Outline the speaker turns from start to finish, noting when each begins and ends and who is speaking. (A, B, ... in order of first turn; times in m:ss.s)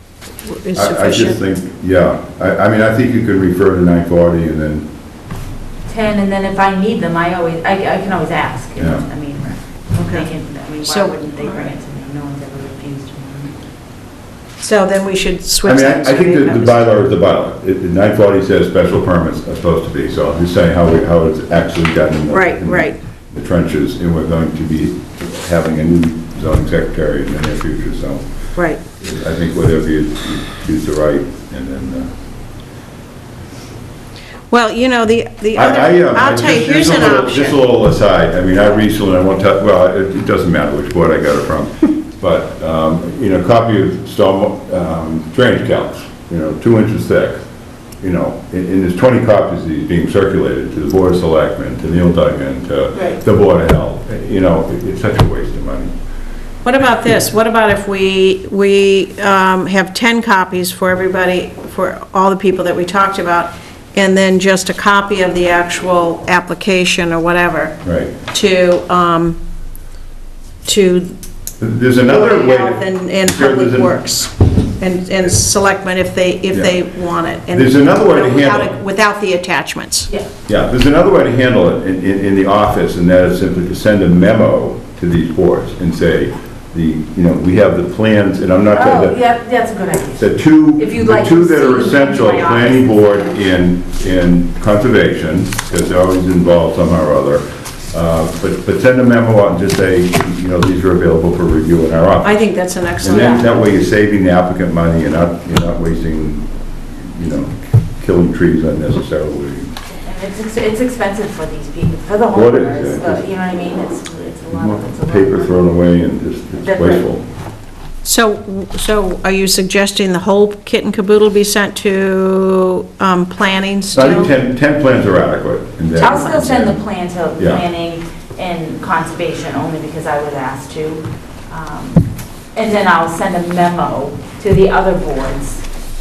0:00.4-0:01.4 A
0:00.7-0:04.9 B
0:05.9-0:13.5 C
0:08.8-0:09.0 B
0:09.9-0:10.3 A
0:10.8-0:11.7 A
0:14.6-0:16.9 A
0:15.6-0:28.2 B
0:22.3-0:23.0 A
0:28.6-0:28.8 A
0:29.0-0:32.1 B
0:34.5-0:37.6 A
0:35.5-0:47.4 B
0:48.0-0:55.9 B
0:52.9-0:53.2 A
0:56.6-1:09.4 A
1:07.8-1:08.1 B
1:10.6-1:11.2 A
1:11.6-1:14.0 B
1:12.0-1:20.1 A
1:16.5-1:16.8 B
1:17.5-1:18.8 B
1:20.5-1:29.2 B
1:28.7-1:33.4 C
1:30.2-1:42.5 B
1:42.2-1:43.5 A
1:43.0-1:46.5 B
1:43.1-1:43.4 C
1:47.0-1:49.7 B
1:49.9-1:55.6 C
1:52.3-1:53.2 B
1:54.5-1:57.2 B
1:56.6-1:57.0 C
1:58.0-2:04.3 A
2:03.9-2:06.8 B
2:06.0-2:15.6 C
2:06.0-2:06.3 A
2:07.4-2:07.6 B